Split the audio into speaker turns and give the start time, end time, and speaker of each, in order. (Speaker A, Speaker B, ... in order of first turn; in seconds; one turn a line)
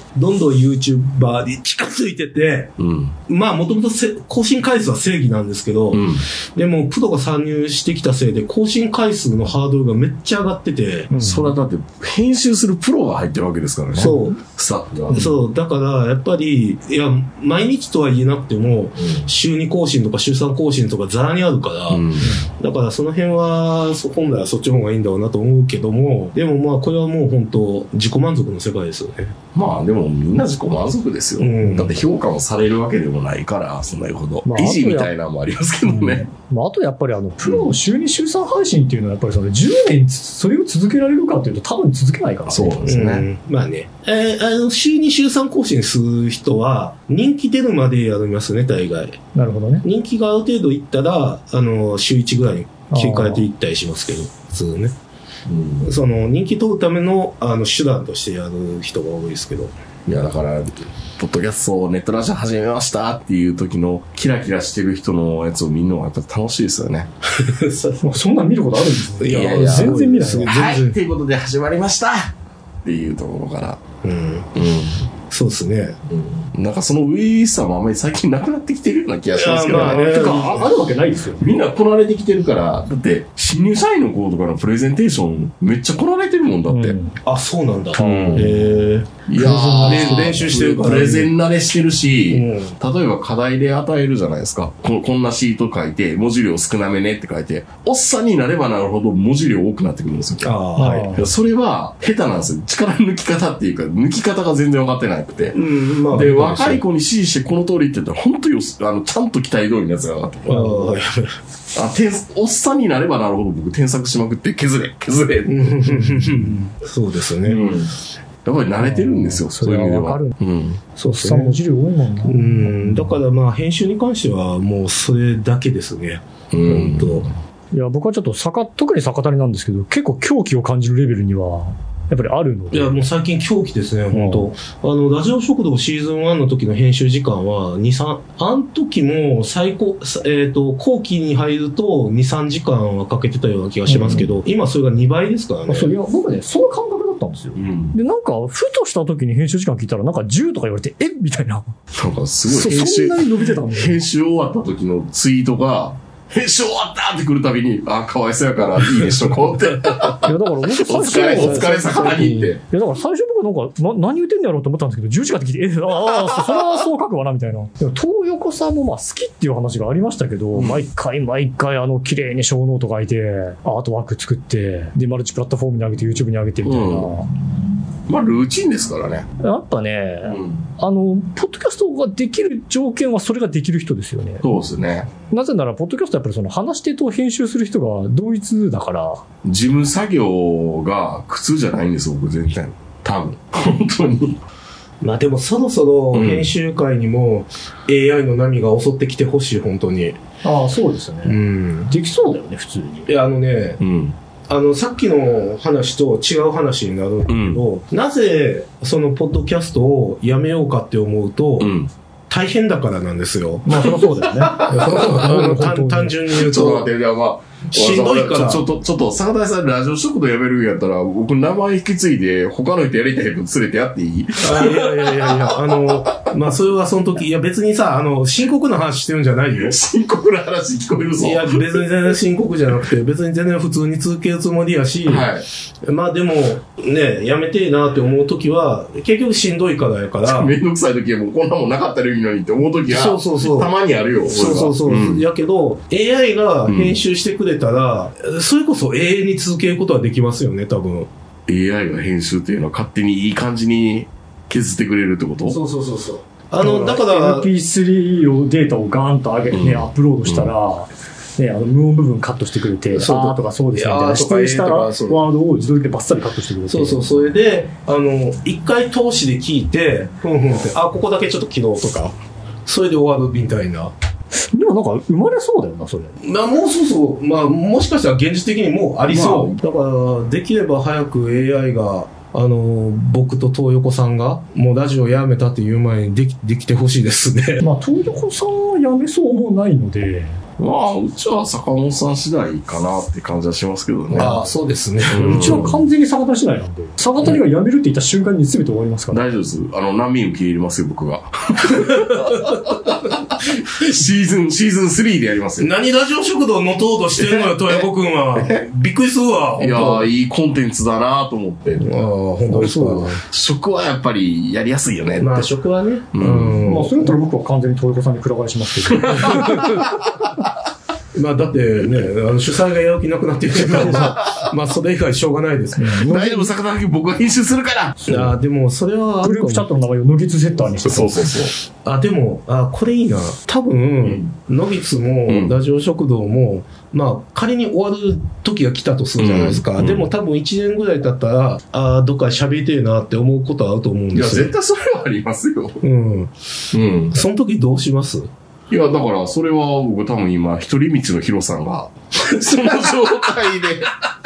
Speaker A: 0.1-2.7
Speaker B: 2.8-3.1
Speaker A: 3.3-11.1
Speaker B: 5.9-6.2
Speaker C: 11.1-11.5
Speaker B: 11.2-15.3
Speaker A: 13.9-14.4
Speaker A: 15.1-29.4
Speaker B: 19.0-19.3
Speaker B: 21.9-22.3
Speaker B: 29.5-36.2
Speaker A: 31.4-31.9
Speaker C: 34.4-35.1
Speaker C: 35.8-42.8
Speaker B: 37.4-37.7
Speaker B: 42.5-43.2
Speaker A: 42.9-49.2
Speaker C: 49.3-49.8
Speaker A: 49.8-54.9
Speaker C: 52.9-53.4
Speaker B: 55.5-55.9
Speaker A: 55.8-59.7
Speaker B: 60.0-67.1
Speaker A: 67.3-68.1
Speaker C: 68.0-70.5
Speaker A: 69.2-71.0
Speaker B: 69.3-73.8
Speaker A: 74.0-74.5
Speaker B: 74.5-75.0
Speaker A: 75.3-76.0
Speaker B: 76.1-80.3
Speaker A: 79.3-80.7
Speaker C: 79.7-81.5
Speaker B: 81.4-87.0
Speaker C: 86.7-87.2
Speaker A: 87.2-89.1
Speaker C: 88.0-88.7
Speaker B: 88.0-88.6
Speaker B: 89.3-100.5
Speaker C: 89.3-90.5
Speaker A: 89.8-91.3
Speaker A: 92.3-92.8
Speaker A: 100.4-101.2
Speaker C: 100.8-101.2
Speaker B: 101.1-110.7
Speaker A: 105.5-106.8
Speaker A: 110.5-111.3
Speaker C: 110.6-110.9
Speaker B: 111.7-116.3
Speaker A: 115.5-117.6
Speaker B: 117.4-117.9
Speaker B: 118.4-120.8
Speaker C: 118.8-120.3
Speaker A: 121.0-121.6
Speaker C: 121.0-123.1
Speaker A: 122.2-127.3
Speaker B: 126.5-127.3
Speaker C: 127.7-132.9
Speaker A: 132.7-145.9
Speaker C: 134.1-134.5
Speaker C: 143.9-144.3
Speaker C: 145.7-151.7
Speaker B: 147.6-147.9
Speaker B: 151.9-162.6
Speaker C: 152.5-154.0
Speaker C: 160.1-177.3
Speaker A: 161.3-162.3
Speaker B: 166.3-166.6
Speaker B: 170.5-170.8
Speaker B: 176.6-177.1
Speaker B: 178.1-179.3
Speaker C: 179.4-184.4
Speaker B: 180.2-180.7
Speaker B: 184.4-185.1
Speaker C: 185.3-189.2
Speaker B: 189.4-194.4
Speaker A: 195.0-200.2
Speaker B: 196.1-196.5
Speaker C: 200.4-203.1
Speaker A: 201.2-201.9
Speaker A: 203.1-203.8
Speaker B: 203.8-204.2
Speaker A: 204.5-211.7
Speaker B: 207.3-207.6
Speaker B: 211.6-211.9
Speaker A: 212.3-213.9
Speaker C: 213.7-216.2
Speaker B: 213.8-215.3
Speaker A: 214.6-216.9
Speaker B: 216.3-226.1
Speaker A: 217.7-218.6
Speaker A: 224.4-229.8
Speaker B: 229.6-231.8
Speaker A: 231.2-235.3
Speaker B: 235.1-235.4
Speaker A: 235.8-240.5
Speaker B: 240.2-245.2
Speaker A: 242.9-243.7
Speaker A: 244.2-251.1
Speaker B: 246.7-247.0
Speaker B: 251.5-255.6
Speaker A: 255.5-257.5
Speaker C: 256.6-267.1
Speaker B: 259.5-260.5
Speaker A: 262.9-265.3
Speaker A: 266.7-273.9
Speaker C: 274.4-276.2
Speaker A: 276.2-287.6
Speaker B: 279.1-279.6
Speaker C: 287.6-290.4
Speaker B: 290.6-294.4
Speaker C: 294.1-294.4
Speaker A: 294.1-295.7
Speaker B: 295.1-295.8
Speaker C: 295.1-299.2
Speaker B: 299.1-305.7
Speaker A: 301.9-302.5
Speaker A: 305.6-310.1
Speaker B: 307.2-308.6
Speaker B: 309.6-311.9
Speaker A: 311.8-313.2
Speaker B: 312.5-315.5
Speaker A: 315.2-317.1
Speaker B: 316.1-316.7
Speaker C: 316.6-319.7
Speaker B: 318.9-319.8
Speaker A: 319.2-319.8
Speaker A: 321.1-326.0
Speaker B: 323.7-324.5
Speaker C: 325.8-326.5
Speaker B: 326.0-328.1
Speaker C: 328.0-328.3
Speaker A: 328.1-329.7
Speaker C: 329.2-331.4
Speaker B: 330.8-331.5
Speaker A: 331.8-344.5
Speaker B: 334.0-334.3
Speaker B: 335.3-335.6
Speaker B: 339.2-340.1
Speaker B: 344.1-345.8
Speaker A: 345.8-346.3
Speaker B: 346.7-347.1
Speaker A: 347.1-348.3
Speaker B: 348.7-354.0